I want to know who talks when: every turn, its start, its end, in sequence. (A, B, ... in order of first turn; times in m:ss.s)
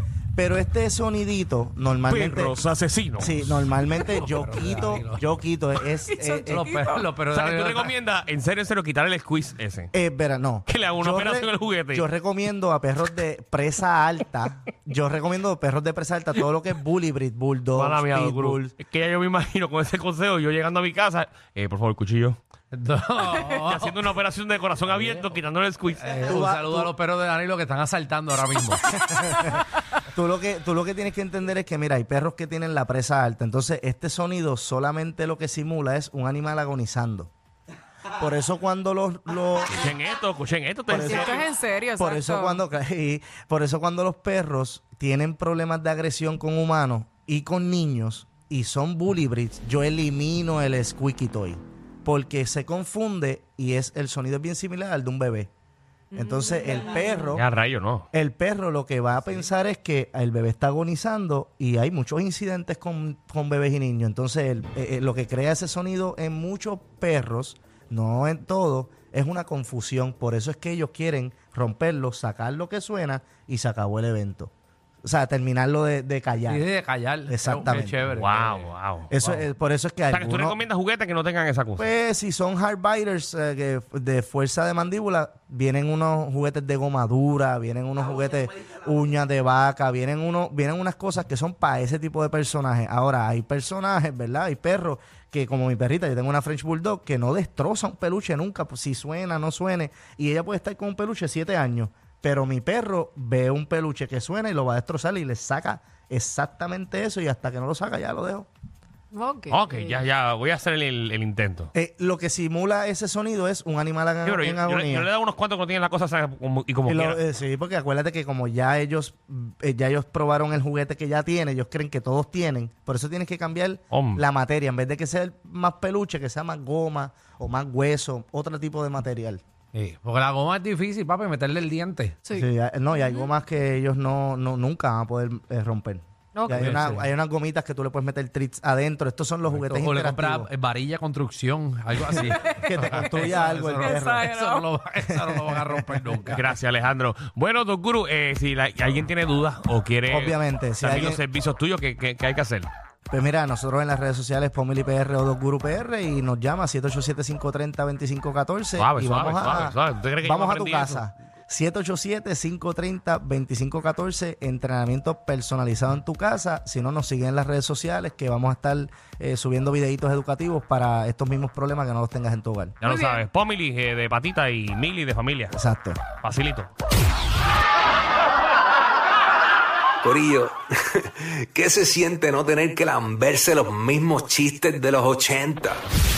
0:00.4-0:02.6 A
0:02.1-0:03.6 B
0:03.2-0:06.7 A
0:03.9-0:05.4 C
0:06.1-0:07.1 D
0:06.5-0:07.9 C
0:07.3-0:09.9 B
0:09.9-0:18.7 A
0:10.7-0:12.1 B
0:17.8-0:22.4 B
0:22.7-0:23.9 C
0:23.4-0:26.4 B
0:24.9-0:25.4 C
0:26.0-0:28.9 C
0:26.2-0:26.9 A
0:29.0-0:37.3 A
0:38.2-0:39.8 A
0:39.7-0:41.4 B
0:40.9-0:55.5 A
0:41.0-0:42.6 D
0:56.1-0:57.3 D
0:56.2-0:57.4 A
0:57.4-0:58.1 B
0:58.1-1:14.5 A
1:15.0-1:16.7 A
1:16.4-1:19.4 C
1:17.3-1:18.0 A
1:18.1-1:19.1 B
1:19.1-1:20.6 A
1:20.1-1:21.9 B
1:21.8-1:48.5 A
1:49.1-1:50.0 D
1:49.5-1:51.7 B
1:51.7-1:55.1 A
1:54.2-1:57.2 B
1:56.9-2:09.4 A
2:03.9-2:04.2 B
2:09.7-2:12.2 C
2:12.3-2:13.3 D
2:12.3-2:20.5 A
2:16.4-2:16.7 D
2:16.5-2:17.1 C
2:19.5-2:26.5 C
2:22.3-2:24.3 A
2:23.8-2:24.7 D
2:25.1-2:26.2 A
2:26.3-2:32.7 B
2:30.1-2:31.2 A
2:33.1-2:52.8 A
2:38.8-2:41.1 B
2:52.8-2:55.6 B
2:52.9-2:53.2 D
2:55.5-2:56.0 A
2:56.2-2:56.7 B
3:00.0-3:05.8 E